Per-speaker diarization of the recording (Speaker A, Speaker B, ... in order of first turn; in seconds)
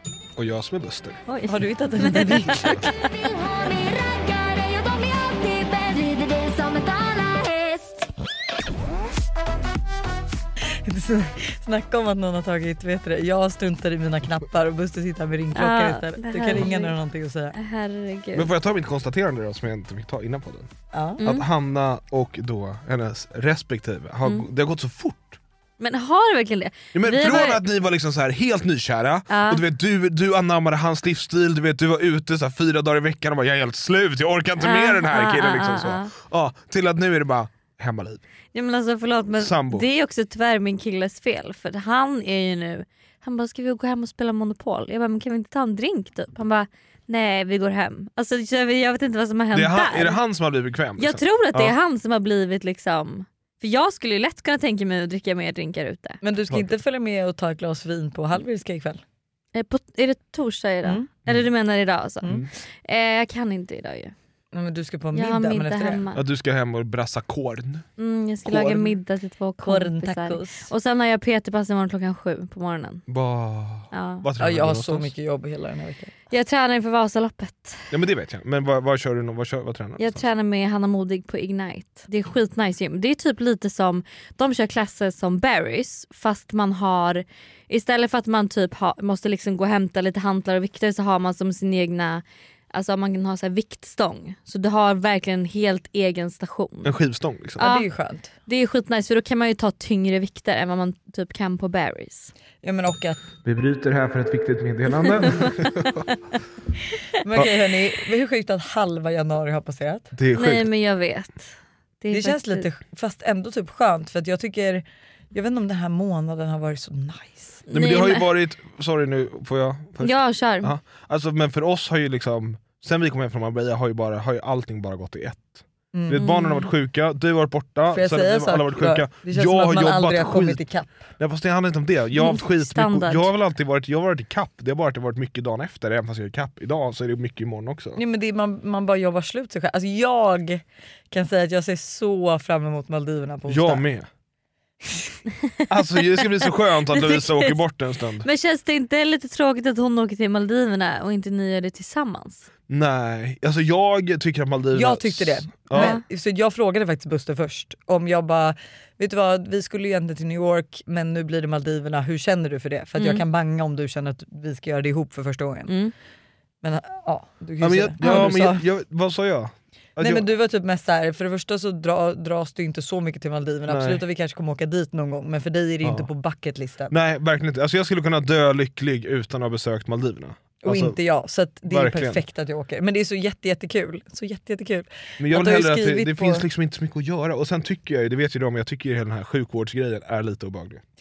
Speaker A: 0.4-1.2, 18.3-25.4, 26.9-38.2, 39.4-39.9, 49.5-51.8, 66.1-67.9, 68.5-69.0, 73.1-75.1, 77.9-80.2, 96.8-97.7, 103.4-106.0, 110.1-110.7, 117.7-130.6, 131.2-138.0, 143.5-144.1, 145.7-148.3, 152.7-155.9, 167.6-170.2, 173.7-174.0, 175.8-176.1, 176.9-181.0, 181.7-182.2, 185.2-190.8
Speaker B: 1.3-2.9, 15.6-16.9, 17.5-18.5, 21.2-21.5, 25.8-27.6, 29.3-29.6, 34.6-36.1, 38.5-50.2, 51.0-56.2, 59.5-62.3, 62.8-64.1, 65.2-66.2, 68.0-73.0, 73.9-74.2, 76.3-77.9, 80.0-97.0, 97.6-97.9, 98.5-102.3, 105.2-105.5, 110.3-112.7, 117.7-118.3, 120.0-120.7, 126.2-126.7, 132.2-133.3, 145.9-147.6, 148.2-152.5, 155.7-156.0, 163.0-163.2, 165.7-165.9
Speaker C: 1.5-2.8, 10.8-17.5, 20.9-21.2, 56.2-59.0, 60.8-61.1, 64.5-66.0, 69.6-70.7, 74.4-76.1, 97.6-98.3, 102.6-103.2, 107.2-110.1, 112.1-117.6, 125.9-126.3, 127.9-131.1, 138.0-143.8, 154.7-165.7, 166.6-168.6, 170.0-176.9, 180.6-186.4
Speaker D: 2.8-8.1